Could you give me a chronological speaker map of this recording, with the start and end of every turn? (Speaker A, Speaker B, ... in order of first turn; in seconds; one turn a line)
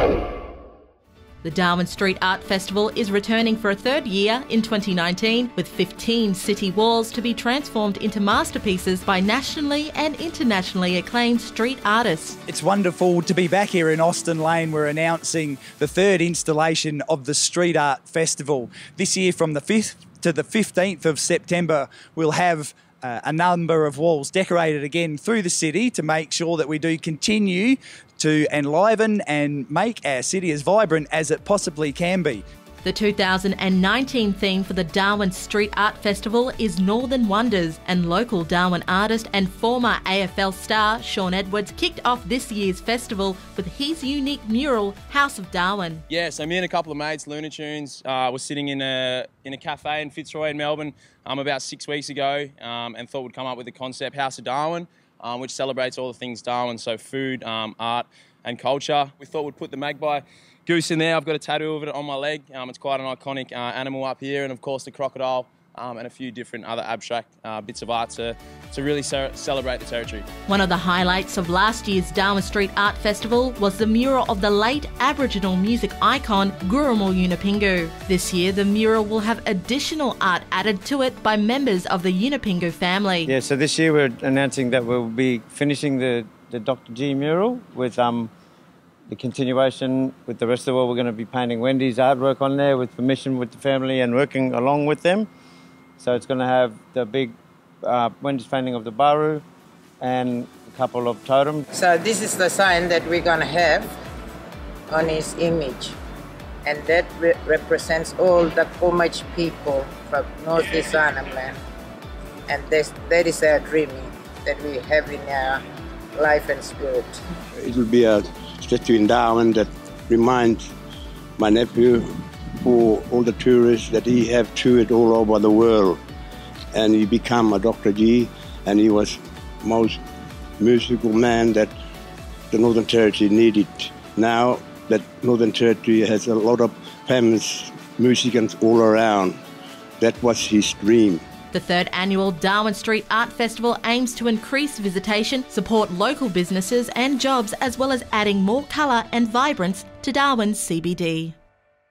Speaker A: 1.4-12.4
Speaker B: 12.5-32.4
Speaker A: 32.8-46.0
Speaker C: 46.1-70.2
Speaker A: 70.5-83.3
Speaker D: 83.3-88.3
Speaker D: 89.1-95.3
Speaker D: 96.0-99.4
Speaker D: 100.0-101.7
Speaker E: 101.7-103.9
Speaker E: 104.9-106.0
Speaker E: 106.6-111.6
Speaker E: 112.5-115.6
Speaker E: 116.2-117.2
Speaker F: 117.6-120.7
Speaker F: 121.4-126.0
Speaker F: 126.7-130.0
Speaker F: 130.6-131.7
Speaker F: 132.5-139.4
Speaker F: 140.0-141.2
Speaker A: 141.5-151.4